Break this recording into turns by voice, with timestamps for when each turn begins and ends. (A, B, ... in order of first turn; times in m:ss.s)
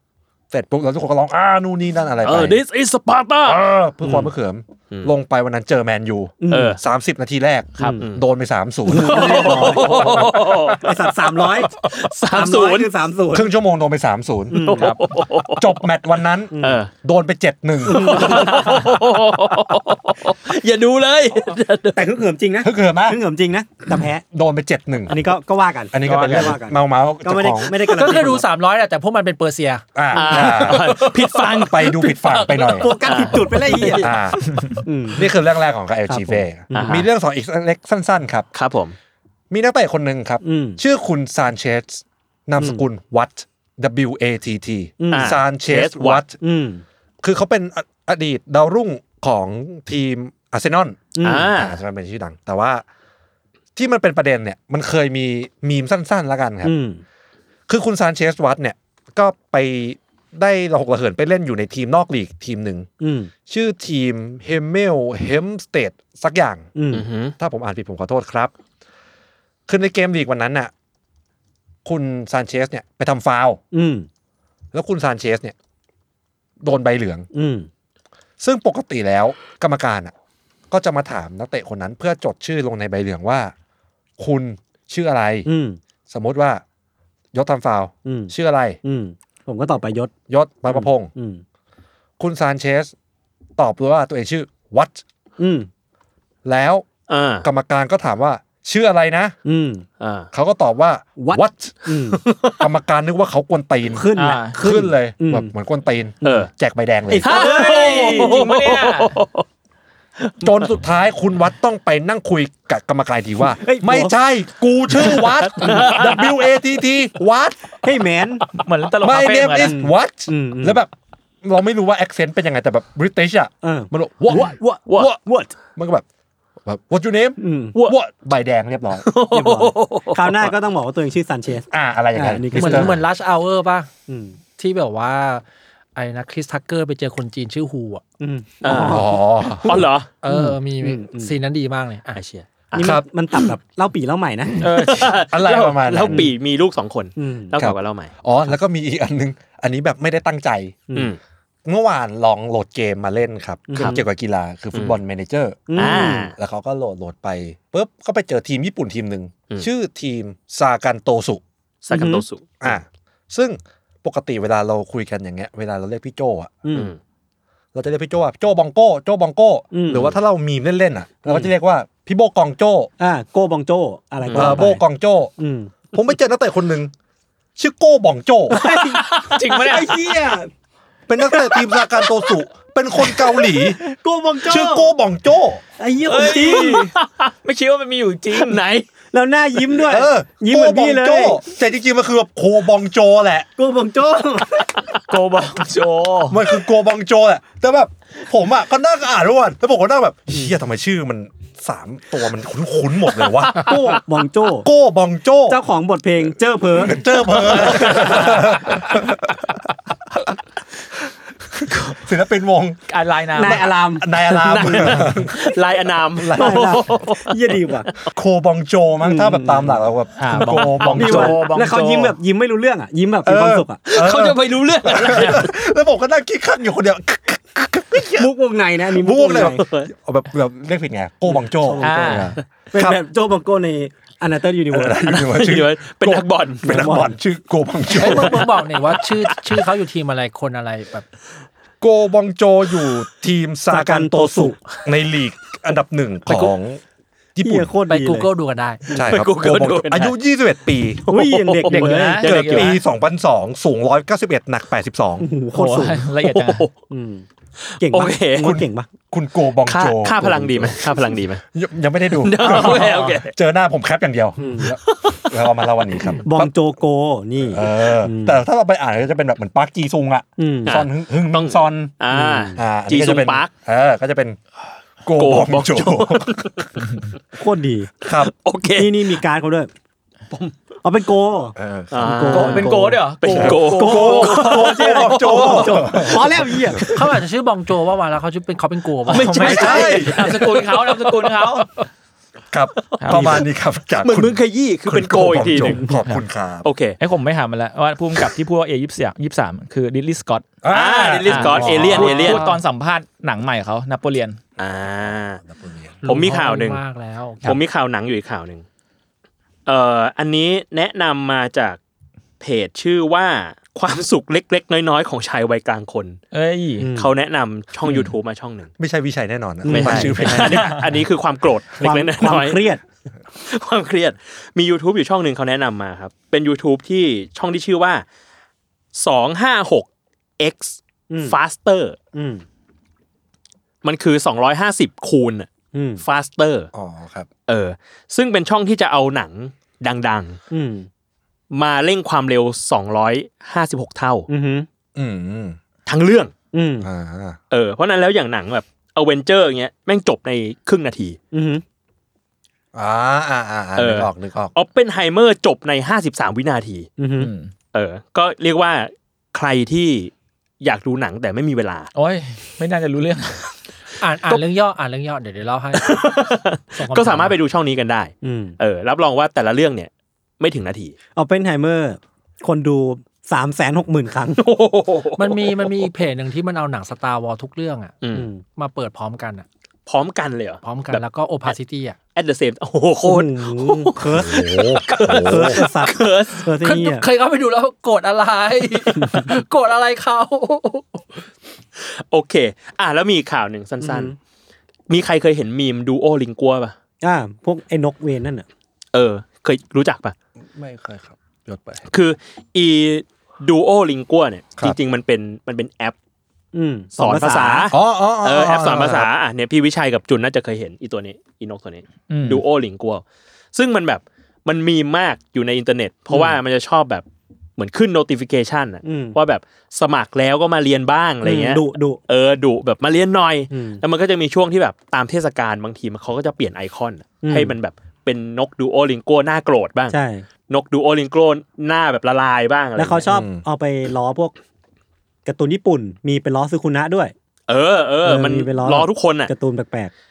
0:00.5-0:02.6 A
0:02.2-0:03.6 B
0:03.4-0:10.2 A
0:04.0-0:04.3 C
0:06.4-0:06.8 C
0:06.5-0:06.8 B
0:08.8-0:13.5 C
0:08.9-0:10.9 B
0:11.8-0:12.9 B
0:13.3-0:14.8 A
0:14.5-0:15.0 C
0:14.6-0:15.7 B
0:15.6-0:18.5 A
0:16.5-0:16.8 C
0:16.6-0:16.9 B
0:17.8-0:22.1 B
0:17.9-0:18.8 C
0:21.9-0:24.2 C
0:22.6-0:23.2 A
0:24.3-0:25.2 A
0:25.1-0:28.5 C
0:25.9-0:28.0 A
0:26.0-0:26.5 D
0:27.8-0:32.8 E
0:29.9-0:32.9 A
0:30.1-0:32.0 B
0:32.6-0:34.2 C
0:33.0-0:34.1 B
0:34.0-0:34.4 A
0:34.8-0:35.3 C
0:35.1-0:38.5 A
0:36.1-0:37.0 C
0:36.7-0:37.0 B
0:38.5-0:39.0 B
0:39.5-0:46.4 A
0:40.4-0:40.8 C
0:45.0-0:45.4 C
0:45.1-0:46.2 B
0:46.4-0:46.8 C
0:47.2-0:52.8 A
0:51.2-0:51.6 C
0:51.2-0:51.8 B
0:53.7-0:56.7 A
0:56.6-0:57.0 C
0:57.7-1:02.9 A
1:03.0-1:03.3 C
1:03.5-1:06.7 A
1:06.7-1:07.1 C
1:06.9-1:07.3 B
1:07.4-1:08.5 A
1:09.7-1:10.7 A
1:11.8-1:13.6 A
1:13.7-1:14.1 C
1:14.7-1:15.5 A
1:16.6-1:17.3 A
1:17.3-1:17.7 C
1:18.4-1:20.1 A
1:20.7-1:23.5 A
1:24.2-1:25.5 A
1:25.4-1:25.8 C
1:26.1-1:26.6 A
1:27.3-1:28.8 A
1:28.0-1:30.1 C
1:30.3-1:31.1 A
1:30.7-1:31.4 C
1:32.2-1:32.9 A
1:33.6-1:35.0 A
1:35.4-1:35.7 C
1:36.4-1:36.9 A
1:37.1-1:37.4 B
1:37.4-1:39.4 A
1:39.4-1:39.8 C
1:40.0-1:40.3 B
1:40.3-1:41.9 A
1:41.2-1:42.2 C
1:42.2-1:42.6 B
1:42.6-1:47.5 A
1:43.9-1:45.5 C
1:44.2-1:44.6 D
1:47.1-1:48.4 C
1:47.2-1:49.4 B
1:47.3-1:49.1 D
1:50.2-1:50.5 B
1:50.4-1:57.6 A
1:53.6-1:54.1 C
1:55.1-1:56.2 B
1:55.6-1:55.9 C
1:57.8-1:58.5 C
1:58.6-1:59.7 D
1:59.0-2:00.9 A
1:59.6-2:00.8 C
2:01.4-2:05.2 A
2:03.6-2:05.5 C
2:04.5-2:05.1 B
2:05.7-2:06.0 A
2:06.6-2:09.1 A
2:07.4-2:07.8 C
2:09.0-2:10.5 B
2:09.3-2:13.0 C
2:11.7-2:13.0 A
2:12.5-2:13.9 E
2:14.1-2:14.4 C
2:14.6-2:15.4 E
2:15.9-2:18.0 E
2:18.2-2:21.3 C
2:18.6-2:20.1 B
2:18.7-2:19.8 A
2:20.2-2:22.2 E
2:22.1-2:22.9 B
2:22.7-2:24.7 C
2:22.8-2:23.0 A
2:24.6-2:25.1 D
2:24.6-2:28.1 B
2:25.3-2:26.3 A
2:26.0-2:26.3 C
2:27.2-2:27.6 C
2:27.6-2:30.9 A
2:31.6-2:41.4 A
2:33.7-2:34.0 C
2:35.7-2:36.3 C
2:35.8-2:36.3 B
2:41.8-2:42.8 B
2:41.9-2:42.2 C
2:42.6-2:46.6 A
2:46.6-2:46.9 C
2:47.7-2:52.9 A
2:49.7-2:50.1 C
2:53.0-2:54.8 C
2:54.2-2:54.6 B
2:54.3-2:55.3 A
2:55.4-2:55.8 C
2:55.9-2:56.9 A
2:57.6-2:58.6 A
2:58.5-3:00.5 C
2:59.3-3:00.0 D
3:01.1-3:03.8 A
3:01.2-3:01.8 C
3:03.5-3:04.9 C
3:04.4-3:05.6 A
3:05.8-3:06.8 C
3:06.0-3:06.9 D
3:06.3-3:07.3 B
3:07.4-3:08.6 D
3:08.3-3:08.9 B
3:09.1-3:11.4 C
3:09.8-3:13.5 A
3:13.6-3:14.8 C
3:15.1-3:16.4 D
3:16.3-3:23.8 A
3:23.5-3:24.7 C
3:24.6-3:25.6 A
3:25.5-3:28.5 C
3:26.7-3:29.4 A
3:31.9-3:32.8 A
3:32.9-3:33.7 D
3:33.3-3:35.2 C
3:33.4-3:35.4 A
3:34.3-3:37.5 B
3:36.2-3:36.8 A
3:36.3-3:37.9 C
3:38.1-3:41.4 A
3:39.0-3:39.8 C
3:40.2-3:42.1 D
3:40.3-3:43.9 C
3:43.2-3:48.3 A
3:43.9-3:45.5 B
3:48.2-3:49.6 C
3:48.9-3:53.0 A
3:49.6-3:49.9 B
3:51.3-3:55.4 C
3:51.8-3:52.3 D
3:54.7-3:58.5 A
3:55.3-3:56.7 B
3:56.6-3:57.1 C
3:57.9-4:01.0 E
4:01.8-4:06.8 A
4:03.7-4:04.6 C
4:07.3-4:07.7 A
4:07.4-4:08.3 C
4:07.9-4:08.8 E
4:08.9-4:09.2 C
4:08.9-4:11.1 A
4:09.0-4:10.1 B
4:11.0-4:12.8 B
4:11.1-4:12.3 C
4:11.7-4:12.8 D
4:12.2-4:15.3 A
4:15.2-4:16.1 C
4:15.5-4:16.7 D
4:16.2-4:16.8 B
4:16.9-4:17.2 C
4:17.7-4:18.6 B
4:17.8-4:18.9 C
4:18.4-4:20.8 A
4:19.6-4:21.4 B
4:20.3-4:20.7 C
4:21.5-4:26.5 A
4:22.2-4:23.3 B
4:24.4-4:24.7 C
4:24.8-4:25.4 B
4:26.2-4:28.4 C
4:27.5-4:31.9 A
4:30.4-4:30.8 C
4:30.6-4:33.5 B
4:32.1-4:32.6 C
4:32.6-4:34.4 A
4:35.0-4:36.6 A
4:35.1-4:36.7 B
4:37.3-4:37.9 C
4:38.0-4:38.3 A
4:38.2-4:39.2 B
4:38.7-4:39.7 C
4:40.8-4:47.0 C
4:41.6-4:42.6 A
4:41.9-4:45.8 B
4:42.3-4:44.4 D
4:43.3-4:46.8 A
4:46.9-4:49.9 E
4:49.1-4:51.7 D
4:49.1-4:50.8 B
4:49.4-4:50.2 A
4:49.5-4:49.8 C
4:52.5-4:56.7 A
4:52.9-4:53.4 B
4:53.0-4:53.4 D
4:54.0-4:55.8 B
4:55.6-4:55.9 C
4:56.6-4:57.0 B
4:57.0-5:00.5 D
5:00.6-5:02.3 A
5:00.7-5:02.4 B
5:01.2-5:04.4 D
5:01.8-5:02.6 E
5:04.6-5:05.4 B
5:05.0-5:06.1 A
5:06.0-5:07.6 E
5:06.0-5:06.8 B
5:07.4-5:08.6 B
5:09.6-5:11.8 B
5:12.4-5:16.2 B
5:16.3-5:16.9 D
5:16.8-5:17.1 C
5:17.0-5:18.7 B
5:17.8-5:18.1 D
5:18.8-5:20.8 A
5:19.6-5:20.6 C
5:19.7-5:22.6 B
5:20.4-5:20.8 D
5:21.8-5:22.8 C
5:23.4-5:28.0 B
5:28.9-5:29.9 B
5:30.4-5:32.0 B
5:31.1-5:31.4 C
5:32.1-5:32.4 C
5:33.8-5:35.5 B
5:35.7-5:36.0 C
5:36.0-5:36.7 B
5:36.7-5:37.3 A
5:37.5-5:40.4 B
5:40.5-5:40.9 C
5:41.5-5:44.3 B
5:44.3-5:44.7 C
5:45.0-5:45.6 A
5:45.8-5:46.3 B
5:46.5-5:46.9 C
5:46.8-5:47.4 A
5:47.5-5:51.2 B
5:51.3-5:51.6 C
5:52.7-5:54.5 A
5:53.8-5:56.9 B
5:57.0-5:57.3 C
5:57.2-5:57.5 D
5:57.7-6:01.9 B
6:01.9-6:03.5 D
6:04.0-6:06.0 E
6:05.7-6:10.9 B
6:06.7-6:07.4 E
6:08.2-6:08.6 C
6:11.1-6:14.4 C
6:14.4-6:15.8 B
6:15.2-6:17.9 E
6:18.0-6:18.3 B
6:18.1-6:18.4 C
6:18.6-6:19.4 E
6:19.9-6:21.5 B
6:20.6-6:22.0 E
6:22.1-6:26.5 B
6:23.0-6:27.1 C
6:24.1-6:25.6 A
6:26.6-6:31.2 E
6:31.8-6:34.1 B
6:33.8-6:34.2 C
6:34.9-6:36.7 B
6:37.0-6:38.5 C
6:38.9-6:40.1 B
6:40.4-6:41.8 A
6:41.9-6:45.9 B
6:46.5-6:47.7 C
6:47.0-6:57.0 B
6:47.7-6:49.1 A
6:52.1-6:52.4 D
6:56.1-6:56.4 C
6:57.6-7:10.0 B
6:58.8-6:59.2 C
7:01.2-7:02.0 C
7:03.5-7:03.8 C
7:07.2-7:07.6 C
7:09.9-7:10.3 C
7:10.5-7:13.1 B
7:12.8-7:14.4 C
7:13.0-7:13.4 A
7:15.2-7:17.1 C
7:17.5-7:19.3 B
7:18.0-7:19.9 C